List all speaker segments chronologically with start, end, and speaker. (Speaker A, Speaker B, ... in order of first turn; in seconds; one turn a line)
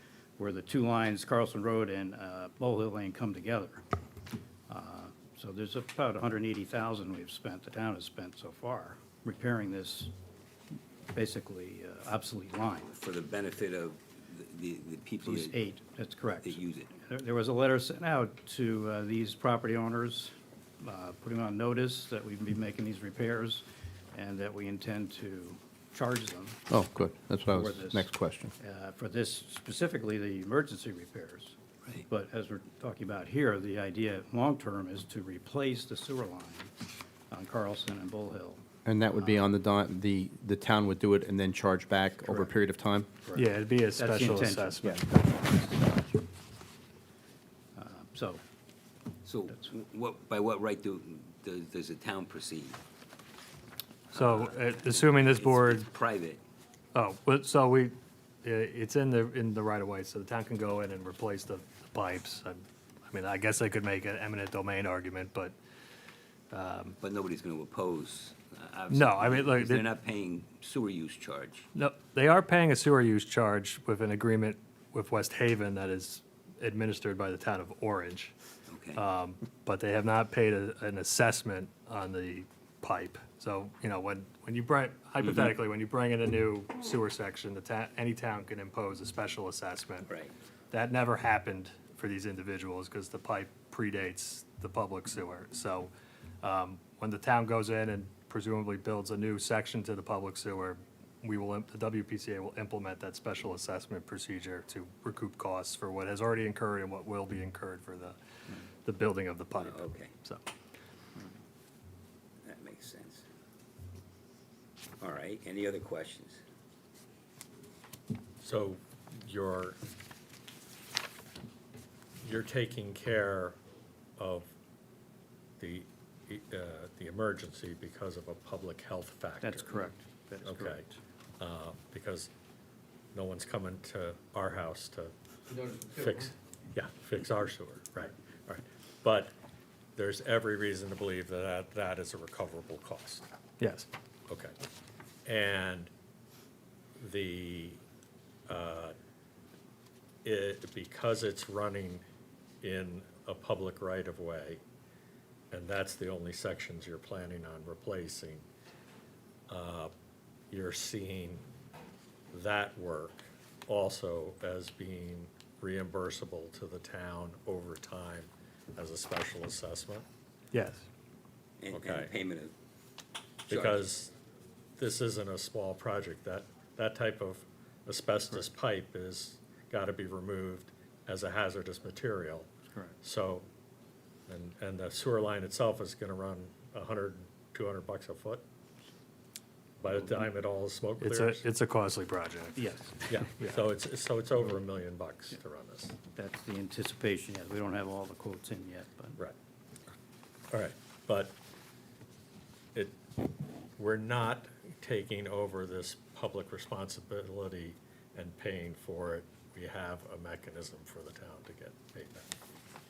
Speaker A: 0.4-3.8
Speaker A: 4.7-10.1
Speaker A: 11.1-12.9
Speaker B: 12.9-15.6
Speaker A: 15.2-26.6
Speaker B: 16.4-16.9
Speaker C: 26.7-28.5
Speaker A: 27.5-31.6
Speaker A: 32.1-36.7
Speaker A: 37.3-38.6
Speaker C: 38.9-43.1
Speaker A: 42.2-42.5
Speaker A: 43.2-46.2
Speaker D: 43.4-45.0
Speaker A: 47.8-48.4
Speaker B: 49.2-52.8
Speaker B: 54.1-56.4
Speaker D: 54.1-55.9
Speaker D: 56.9-65.6
Speaker D: 66.5-67.0
Speaker B: 67.0-71.7
Speaker D: 68.9-69.8
Speaker D: 71.8-78.3
Speaker B: 78.7-79.0
Speaker D: 79.0-90.2
Speaker B: 90.1-90.3
Speaker D: 90.7-95.9
Speaker D: 96.4-108.2
Speaker D: 108.8-110.4
Speaker B: 109.5-110.1
Speaker B: 112.4-113.2
Speaker B: 115.0-116.4
Speaker E: 118.4-119.8
Speaker E: 122.2-123.6
Speaker E: 124.2-124.5
Speaker E: 125.6-129.9
Speaker A: 129.4-131.0
Speaker E: 130.4-130.8
Speaker E: 131.4-132.3
Speaker E: 133.1-139.3
Speaker E: 140.0-143.3
Speaker D: 143.6-143.9
Speaker E: 144.3-144.6
Speaker E: 145.2-145.9
Speaker E: 147.0-147.8
Speaker E: 148.5-148.9
Speaker E: 150.2-152.0
Speaker E: 152.6-154.6
Speaker E: 155.5-158.5
Speaker E: 159.5-159.9
Speaker E: 160.5-161.5
Speaker E: 162.3-170.1
Speaker D: 170.5-170.8
Speaker B: 171.6-172.5
Speaker E: 171.7-172.1
Speaker B: 173.5-173.9
Speaker E: 173.5-174.1
Speaker E: 174.8-182.5
Speaker E: 183.0-183.5
Speaker E: 184.3-188.4
Speaker E: 189.8-191.5
Speaker D: 191.0-193.6
Speaker E: 193.1-196.0
Speaker A: 196.2-199.2
Speaker E: 200.5-201.4
Speaker E: 202.8-203.2
Speaker E: 203.8-212.3